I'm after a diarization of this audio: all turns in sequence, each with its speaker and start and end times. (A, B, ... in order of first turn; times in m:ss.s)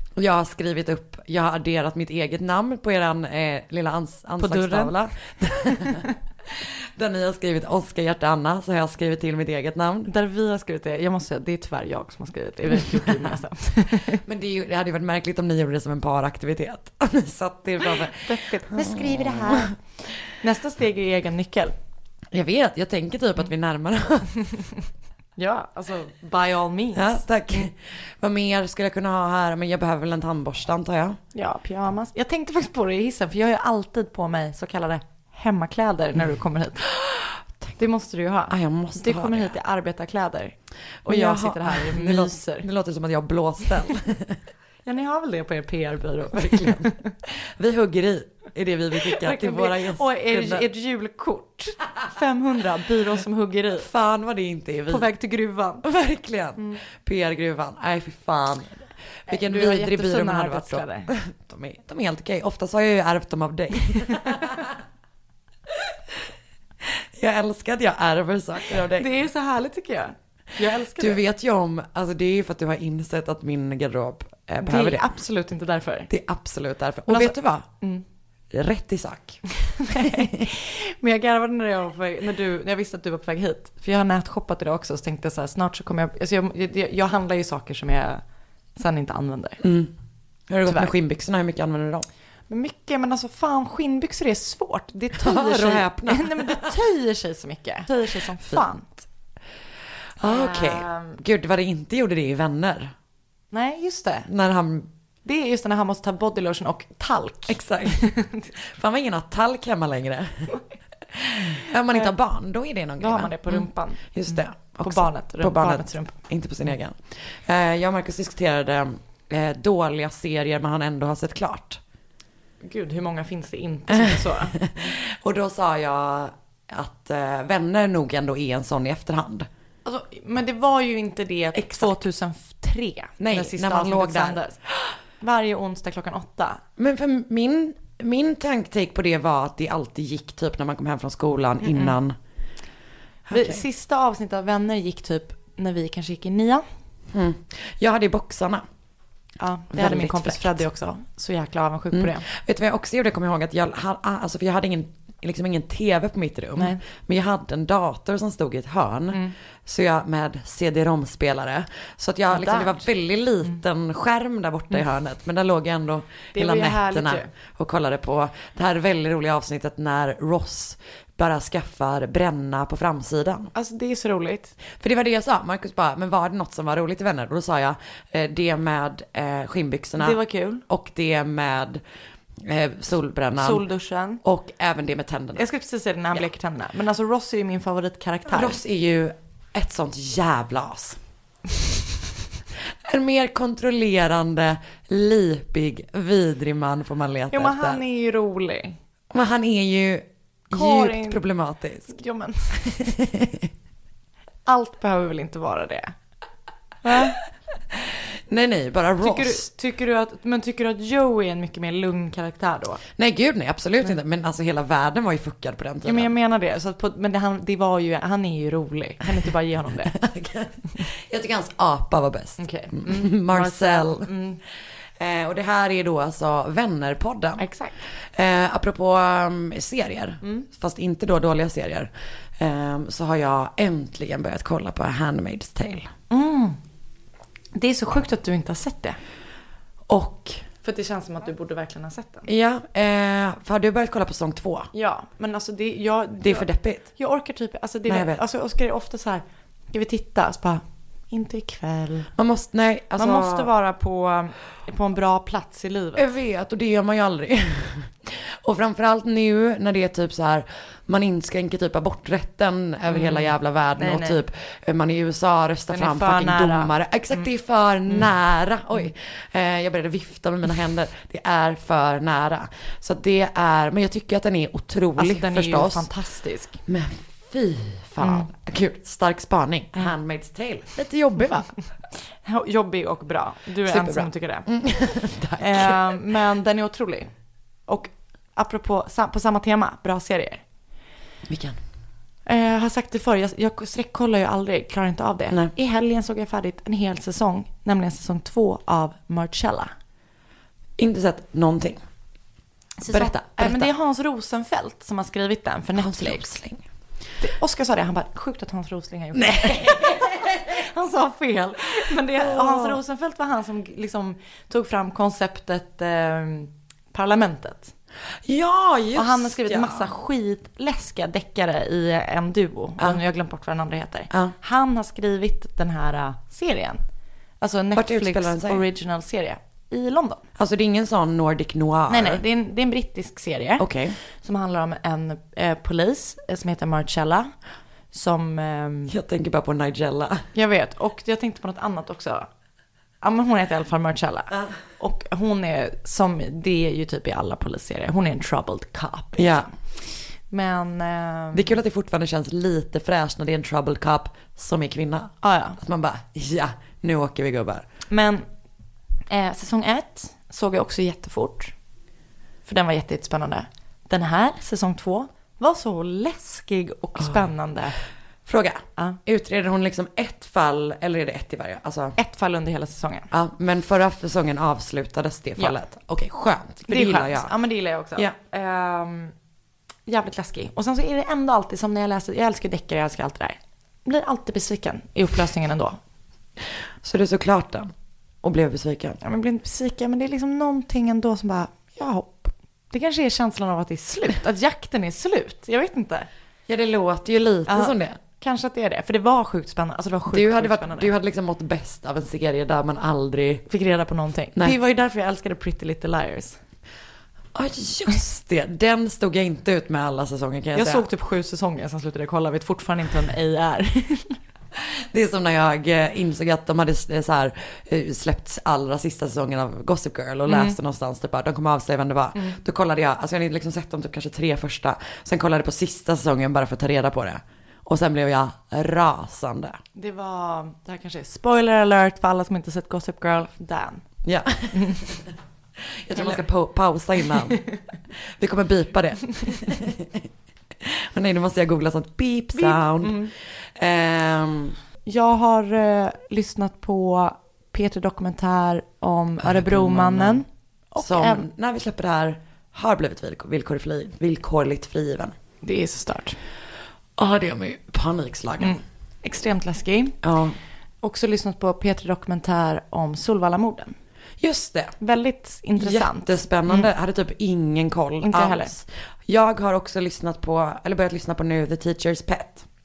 0:00.2-0:10.1 A
0:04.4-0:04.9 B
0:10.1-0:14.2 B
0:14.2-0:19.7 A
0:18.3-0:21.8 B
0:22.3-0:24.4 A
0:25.4-0:27.7 B
0:27.0-0:31.2 A
0:31.3-0:36.9 B
0:37.0-0:37.7 A
0:37.8-0:42.6 B
0:38.5-0:39.5 A
0:41.0-0:44.4 A
0:44.8-0:47.0 B
0:46.3-0:50.6 A
0:49.2-0:53.9 B
0:53.8-0:55.1 A
0:54.9-0:55.8 B
0:55.8-1:04.8 A
0:59.3-1:01.1 B
1:05.7-1:09.1 A
1:08.7-1:11.2 B
1:11.0-1:15.1 A
1:14.6-1:16.1 B
1:16.1-1:17.7 A
1:17.1-1:18.0 B
1:18.5-1:20.4 A
1:19.8-1:28.2 B
1:28.8-1:29.6 B
1:29.6-1:29.9 A
1:30.5-1:32.1 A
1:32.5-1:38.9 B
1:35.2-1:36.8 A
1:40.2-1:42.9 A
1:40.2-1:41.2 B
1:43.5-1:44.3 B
1:44.3-1:44.9 A
1:45.2-1:48.5 B
1:47.5-2:01.8 A
1:53.0-1:56.2 B
2:02.6-2:04.6 B
2:03.9-2:09.5 A
2:09.8-2:14.6 B
2:11.6-2:12.0 A
2:13.2-2:14.4 A
2:15.2-2:16.6 B
2:16.8-2:22.2 A
2:21.6-2:21.9 B
2:23.3-2:23.6 A
2:23.3-2:26.6 B
2:27.1-2:28.6 A
2:29.4-2:32.2 B
2:29.7-2:30.6 A
2:31.9-2:53.5 A
2:36.6-2:36.8 B
2:42.3-2:42.8 B
2:46.3-2:47.3 B
2:53.5-2:54.6 B
2:54.7-3:00.2 A
3:00.0-3:00.6 B
3:00.7-3:01.8 A
3:02.4-3:03.6 A
3:03.4-3:04.2 B
3:04.2-3:05.4 A
3:05.4-3:08.6 B
3:08.3-3:11.0 A
3:12.8-3:17.8 A
3:17.3-3:18.8 B
3:19.1-3:22.0 A
3:20.5-3:21.2 B
3:21.9-3:22.8 B
3:22.5-3:23.5 A
3:24.5-3:26.0 B
3:26.8-3:27.2 B
3:27.7-3:29.4 A
3:29.0-3:32.8 B
3:33.0-3:36.1 A
3:35.8-3:39.9 B
3:39.9-3:44.1 A
3:42.4-3:44.4 B
3:45.0-3:55.9 A
3:47.4-3:47.8 B
3:56.1-3:56.6 B
3:57.6-3:59.0 B
3:59.9-4:00.4 A
4:00.6-4:02.3 B
4:02.3-4:04.7 A
4:04.7-4:12.1 B
4:06.2-4:07.0 A
4:07.9-4:08.2 A
4:12.2-4:13.5 A
4:13.0-4:16.1 B
4:16.0-4:35.9 A
4:22.9-4:23.2 B
4:23.8-4:24.2 B
4:25.7-4:27.2 B
4:35.0-4:36.6 B
4:36.7-4:41.6 A
4:38.0-4:38.3 B
4:42.2-4:44.6 B
4:43.7-4:45.8 A
4:45.4-4:47.1 B
4:47.7-4:50.4 B
4:51.3-4:51.6 A
4:52.3-4:59.7 B
5:00.8-5:01.8 A
5:02.8-5:06.3 B
5:02.9-5:03.7 A
5:05.8-5:06.6 A
5:07.2-5:17.7 B
5:09.2-5:10.6 A
5:12.2-5:12.8 A
5:18.2-5:19.9 A
5:19.0-5:26.8 B
5:27.4-5:30.2 B
5:27.8-5:28.6 A
5:30.4-5:32.2 A
5:31.9-5:37.3 B
5:33.6-5:34.0 A
5:37.9-5:39.0 B
5:38.9-5:40.3 A
5:40.3-5:42.3 B
5:43.0-5:51.5 B
5:49.2-5:49.5 A
5:51.3-5:57.7 A
5:55.2-5:55.6 B
5:57.9-5:58.2 B
5:59.1-6:01.5 B
6:02.5-6:07.8 B
6:08.3-6:12.0 A
6:12.0-6:13.1 B
6:13.1-6:17.3 A
6:16.7-6:19.1 B
6:19.9-6:25.8 B
6:26.8-6:27.7 A
6:28.2-6:29.0 A
6:29.0-6:36.1 B
6:36.5-6:38.0 A
6:37.5-6:40.9 B
6:40.1-6:43.5 A
6:43.5-6:46.4 B
6:47.4-6:50.9 A
6:50.5-6:54.2 B
6:54.5-7:09.6 A
7:00.3-7:00.6 B
7:09.8-7:13.8 B
7:14.0-7:15.0 A
7:14.5-7:14.9 B
7:15.7-7:20.1 A
7:16.0-7:16.2 B
7:20.6-7:24.6 A
7:22.4-7:23.1 B
7:24.9-7:31.3 B
7:29.2-7:30.2 A
7:30.8-7:35.2 A
7:35.4-7:36.2 B
7:37.0-7:38.6 A
7:38.4-7:40.0 B
7:40.0-7:40.4 A
7:40.8-7:43.8 B
7:44.2-7:44.8 A
7:44.8-7:46.7 B
7:45.6-7:52.4 A
7:48.0-7:48.5 B